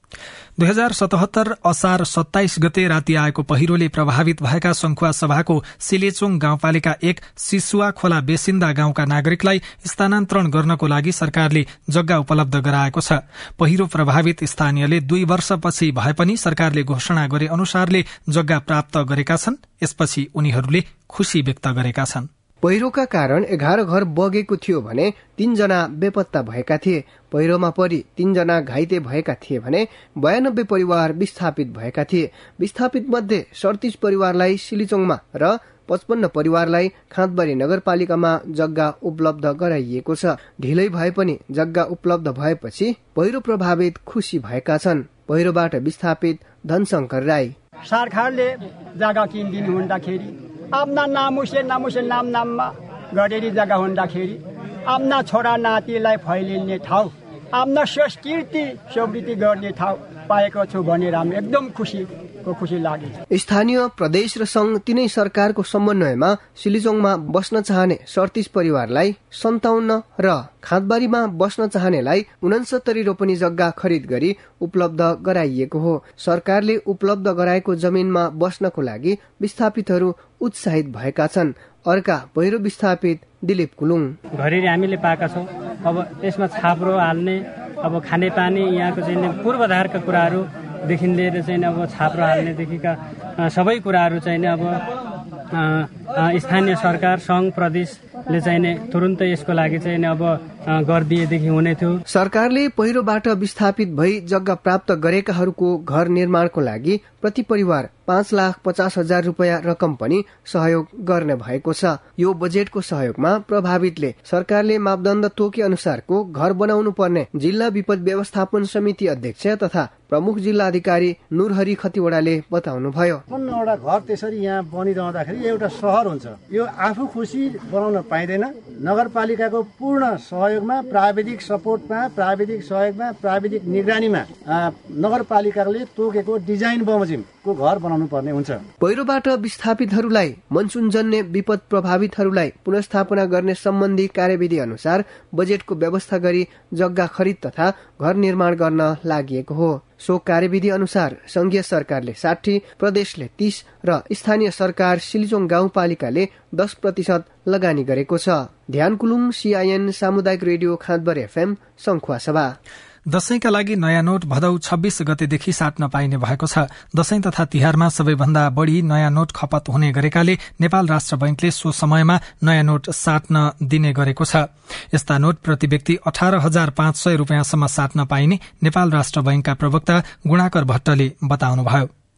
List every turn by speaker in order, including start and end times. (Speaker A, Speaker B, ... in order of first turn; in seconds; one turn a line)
Speaker A: 0.6-22.3
Speaker B: 22.6-47.5
Speaker C: 47.9-63.2
Speaker B: 63.3-84.2
Speaker D: 84.4-94.8
Speaker D: 95.6-102.0
Speaker B: 102.1-123.2
Speaker E: 123.3-138.6
Speaker B: 138.8-162.6
Speaker A: 163.1-181.9